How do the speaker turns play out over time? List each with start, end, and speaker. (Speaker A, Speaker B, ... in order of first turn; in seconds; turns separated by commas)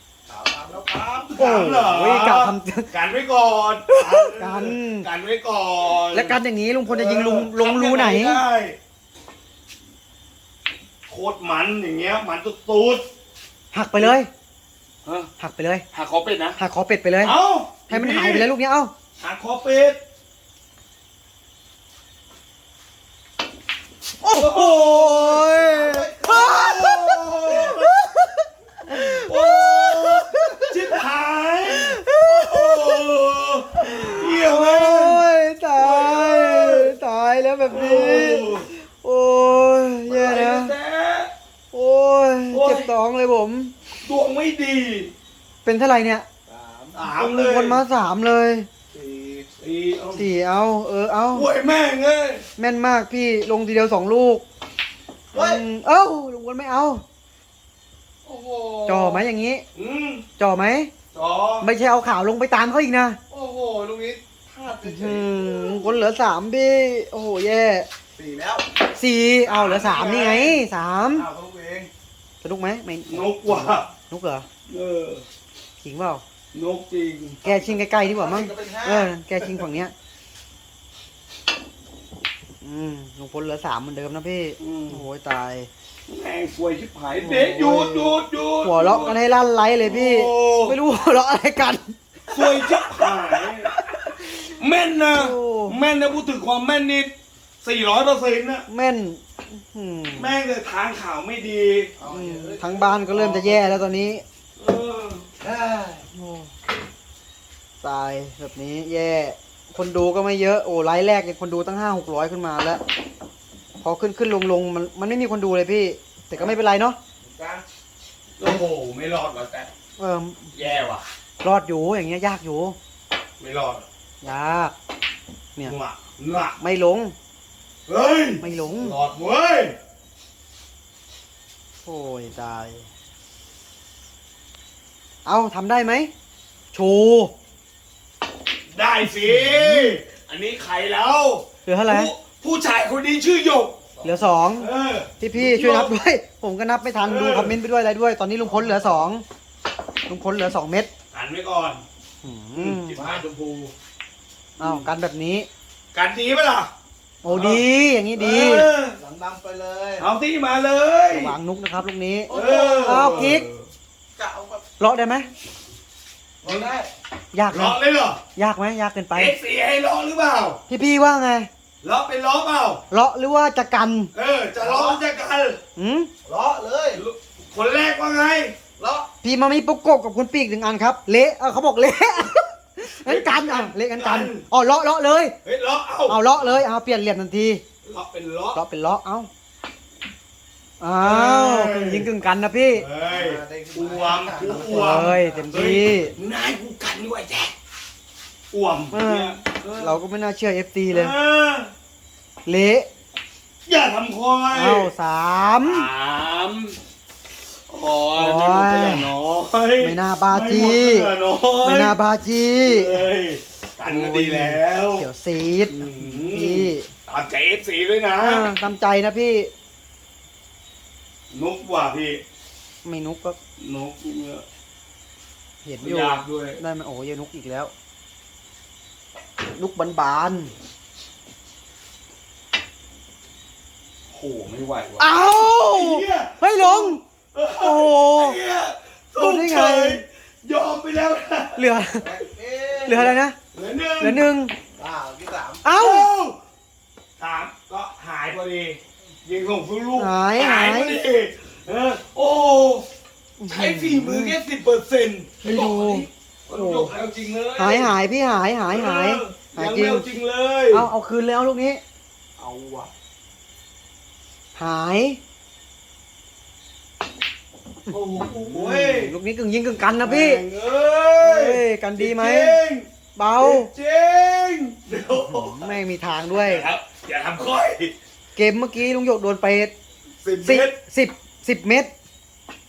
Speaker A: 0.3-1.1, Speaker B: 0.9-8.8, Speaker C: 1.4-2.9, Speaker C: 3.9-5.1, Speaker C: 6.1-8.4, Speaker B: 11.1-13.1, Speaker C: 13.7-14.3, Speaker B: 15.0-15.3, Speaker C: 15.4-15.8, Speaker B: 15.9-16.6, Speaker C: 16.6-17.4, Speaker B: 17.2-18.5, Speaker C: 17.9-18.9, Speaker B: 19.2-20.0, Speaker C: 24.2-31.0, Speaker B: 24.3-27.9, Speaker B: 28.9-35.2, Speaker C: 31.6-33.0, Speaker C: 33.8-40.7, Speaker B: 35.8-36.9, Speaker B: 37.6-38.7, Speaker B: 40.1-41.3, Speaker C: 41.7-43.7, Speaker B: 42.5-42.9, Speaker B: 44.0-45.1, Speaker C: 45.6-46.3, Speaker A: 46.5-47.0, Speaker B: 47.0-47.8, Speaker C: 47.1-48.7, Speaker A: 48.9-49.5, Speaker B: 49.6-50.2, Speaker C: 50.1-51.5, Speaker B: 51.3-52.5, Speaker C: 52.6-54.4, Speaker A: 55.3-55.6, Speaker C: 55.3-57.0, Speaker A: 58.2-59.2, Speaker C: 58.9-59.6, Speaker B: 59.7-60.2, Speaker C: 60.4-60.9, Speaker B: 61.1-61.7, Speaker C: 61.6-63.2, Speaker A: 63.3-65.9, Speaker C: 64.8-67.9, Speaker A: 68.1-68.7, Speaker C: 68.8-71.3, Speaker B: 69.5-70.6, Speaker A: 71.1-71.9, Speaker C: 72.4-74.5, Speaker B: 73.1-73.9, Speaker B: 74.7-75.2, Speaker C: 75.8-76.2, Speaker B: 76.5-77.4, Speaker C: 77.4-79.9, Speaker A: 77.5-79.5, Speaker C: 82.6-85.7, Speaker B: 84.6-85.0, Speaker B: 86.1-89.2, Speaker C: 87.2-92.9, Speaker B: 89.8-90.8, Speaker B: 92.3-93.7, Speaker C: 93.7-94.2, Speaker B: 94.6-98.7, Speaker C: 95.1-95.8, Speaker C: 98.7-100.3, Speaker B: 100.2-101.9, Speaker A: 102.0-103.9, Speaker C: 102.1-104.2, Speaker B: 104.6-105.3, Speaker A: 105.4-106.0, Speaker C: 106.1-106.5, Speaker C: 107.8-112.8, Speaker C: 113.8-117.0, Speaker A: 117.2-117.6, Speaker B: 118.4-119.7, Speaker C: 120.0-120.5, Speaker B: 120.5-121.0, Speaker C: 121.4-122.8, Speaker B: 123.4-123.8, Speaker C: 124.2-124.7, Speaker B: 125.6-126.5, Speaker C: 126.5-127.1, Speaker B: 127.9-129.8, Speaker C: 128.4-129.0, Speaker C: 131.8-132.8, Speaker C: 135.2-136.1, Speaker C: 136.7-137.3, Speaker B: 138.7-143.8, Speaker C: 139.3-140.0, Speaker C: 141.7-142.1, Speaker A: 143.9-144.2, Speaker C: 144.0-144.7, Speaker B: 144.6-145.9, Speaker C: 145.2-149.2, Speaker B: 147.0-147.5, Speaker A: 148.6-148.9, Speaker C: 150.1-150.9, Speaker B: 151.1-151.8, Speaker C: 152.2-153.0, Speaker B: 152.6-153.7, Speaker A: 153.0-153.3, Speaker C: 154.6-155.5, Speaker B: 155.9-156.7, Speaker C: 157.2-158.7, Speaker B: 157.3-157.6, Speaker B: 158.2-159.0, Speaker A: 158.9-160.0, Speaker B: 160.0-161.3, Speaker C: 161.1-163.4, Speaker A: 162.3-163.1, Speaker B: 162.3-163.7, Speaker A: 164.2-164.7, Speaker C: 164.8-165.3, Speaker A: 166.4-166.9, Speaker B: 166.4-166.7, Speaker C: 167.3-167.8, Speaker B: 167.5-168.2, Speaker C: 168.3-169.3, Speaker B: 169.1-170.6, Speaker C: 170.7-171.5, Speaker B: 171.8-172.8, Speaker C: 172.9-174.1, Speaker B: 174.1-175.6, Speaker A: 174.6-175.0, Speaker C: 175.8-176.1, Speaker A: 176.2-177.0, Speaker B: 176.9-178.6, Speaker A: 178.8-179.1, Speaker C: 179.2-185.3, Speaker B: 183.0-184.4, Speaker B: 185.4-186.2, Speaker C: 186.1-187.6, Speaker B: 187.8-188.6, Speaker C: 188.5-189.3, Speaker C: 190.8-192.8, Speaker B: 191.0-192.1, Speaker B: 192.7-197.5, Speaker A: 193.1-195.5, Speaker C: 194.5-196.1, Speaker B: 198.5-200.0, Speaker C: 198.9-201.1, Speaker B: 200.9-201.7, Speaker C: 202.4-202.9, Speaker B: 203.7-204.9, Speaker C: 204.5-205.9, Speaker B: 205.6-206.8, Speaker B: 207.7-211.9, Speaker C: 208.2-209.1, Speaker C: 209.8-211.1, Speaker C: 211.6-213.0, Speaker B: 212.6-215.1, Speaker C: 213.8-216.9, Speaker B: 215.7-218.5, Speaker C: 218.2-219.5, Speaker B: 221.3-222.2, Speaker C: 222.8-223.4, Speaker B: 223.6-224.4, Speaker C: 225.6-227.7, Speaker B: 225.8-226.6, Speaker C: 229.4-230.5, Speaker B: 234.1-235.1, Speaker C: 235.0-237.0, Speaker B: 235.7-241.6, Speaker C: 237.6-238.4, Speaker C: 239.2-240.0, Speaker C: 241.6-242.1, Speaker A: 242.0-243.1, Speaker C: 242.8-243.3, Speaker B: 243.5-244.2, Speaker C: 244.0-244.5, Speaker A: 244.8-245.6, Speaker C: 245.6-246.1, Speaker B: 245.8-246.4, Speaker B: 247.2-252.9, Speaker C: 250.0-251.0, Speaker C: 253.4-254.4, Speaker B: 253.5-257.9, Speaker C: 255.4-256.9, Speaker C: 257.6-260.1, Speaker B: 258.7-260.9, Speaker C: 260.7-261.8, Speaker B: 262.4-262.9, Speaker C: 264.6-265.2, Speaker C: 267.9-270.4, Speaker B: 267.9-269.1, Speaker B: 270.0-272.9, Speaker C: 271.2-272.6, Speaker C: 273.1-273.7, Speaker B: 273.4-275.7, Speaker C: 275.1-276.6, Speaker B: 276.4-277.9, Speaker C: 278.4-279.7, Speaker B: 280.2-280.8, Speaker C: 280.4-281.9